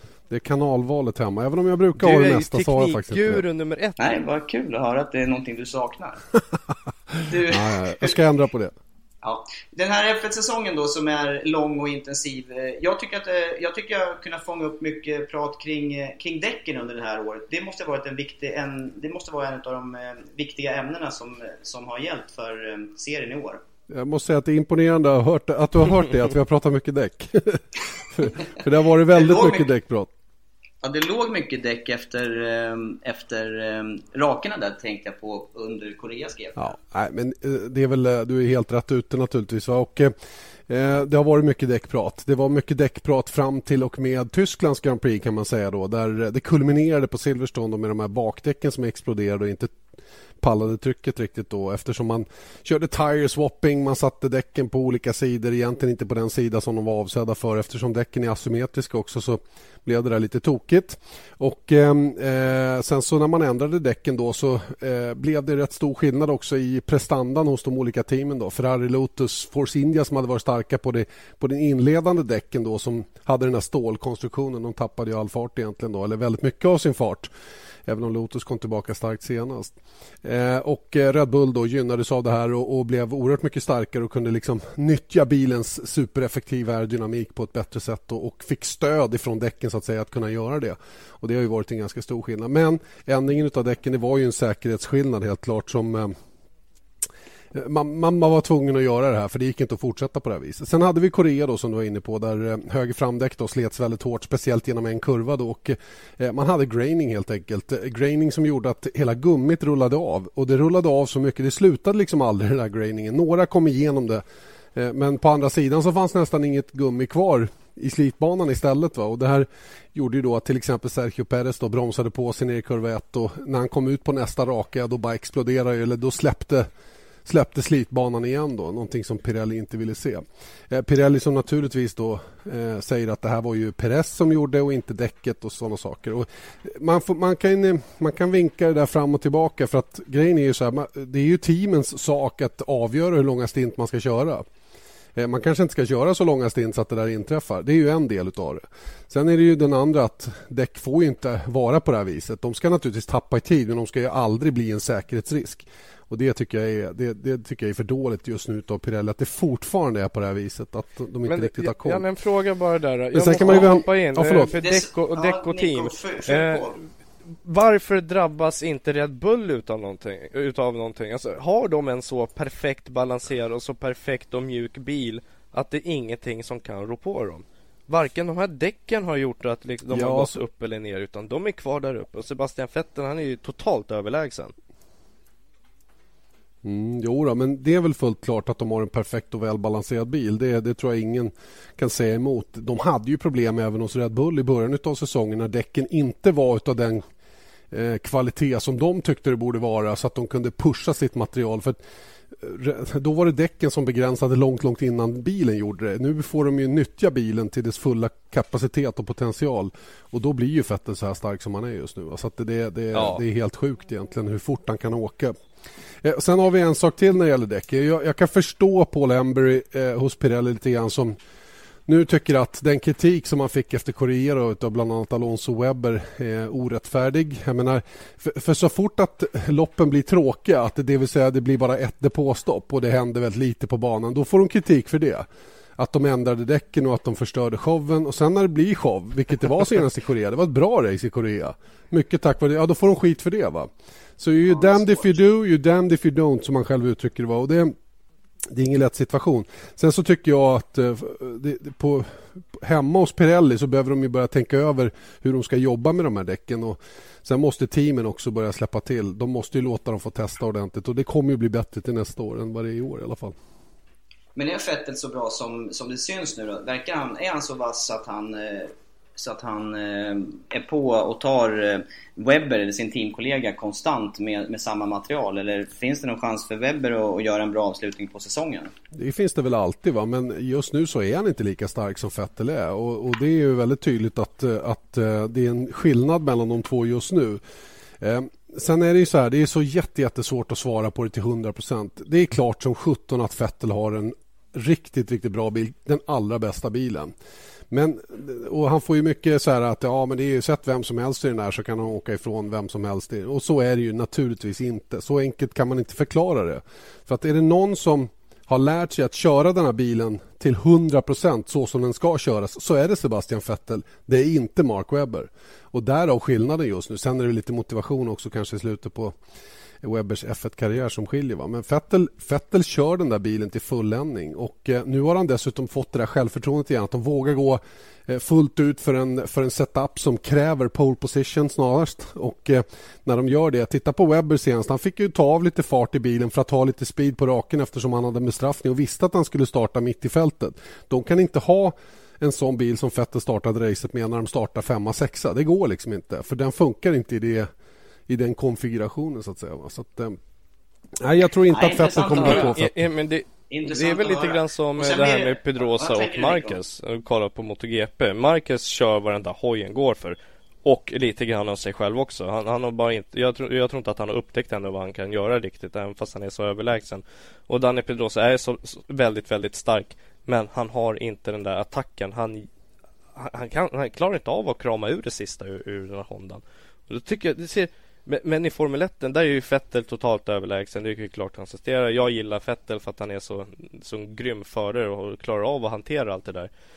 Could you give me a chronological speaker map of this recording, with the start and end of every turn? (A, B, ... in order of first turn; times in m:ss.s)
0:00.3-0:03.4 A
0:02.0-0:04.2 B
0:04.0-0:06.2 C
0:07.2-0:08.2 C
0:07.5-0:08.8 A
0:09.2-0:23.6 C
0:23.9-0:30.1 A
0:29.1-0:29.7 C
0:30.8-0:36.8 C
0:36.6-0:40.1 A
0:40.7-0:49.8 A
0:50.4-1:17.3 A
1:17.9-1:36.2 A
1:37.5-1:54.2 A
1:54.8-2:06.7 A
2:07.3-2:24.5 A
2:25.2-2:42.0 A
2:41.3-2:46.8 B
2:43.1-2:44.5 A
2:43.4-2:43.7 C
2:44.5-2:46.8 C
2:47.4-3:04.5 B
2:59.9-3:00.4 A
3:06.6-3:17.0 A
3:17.7-3:21.8 A
3:22.4-3:35.4 A
3:32.9-3:33.2 B
3:36.0-3:41.2 A
3:41.9-3:55.3 A
3:55.8-4:07.8 A
4:04.5-4:05.2 C
4:08.5-4:23.4 A
4:24.4-4:38.7 C
4:38.9-4:47.4 A
4:48.0-4:57.1 A
4:57.7-5:19.2 A
5:19.8-5:47.5 A
5:48.1-5:50.2 A
5:51.0-5:52.8 A
5:51.5-5:52.6 C
5:52.0-6:12.5 B
5:53.5-5:56.6 C
6:13.2-6:26.5 B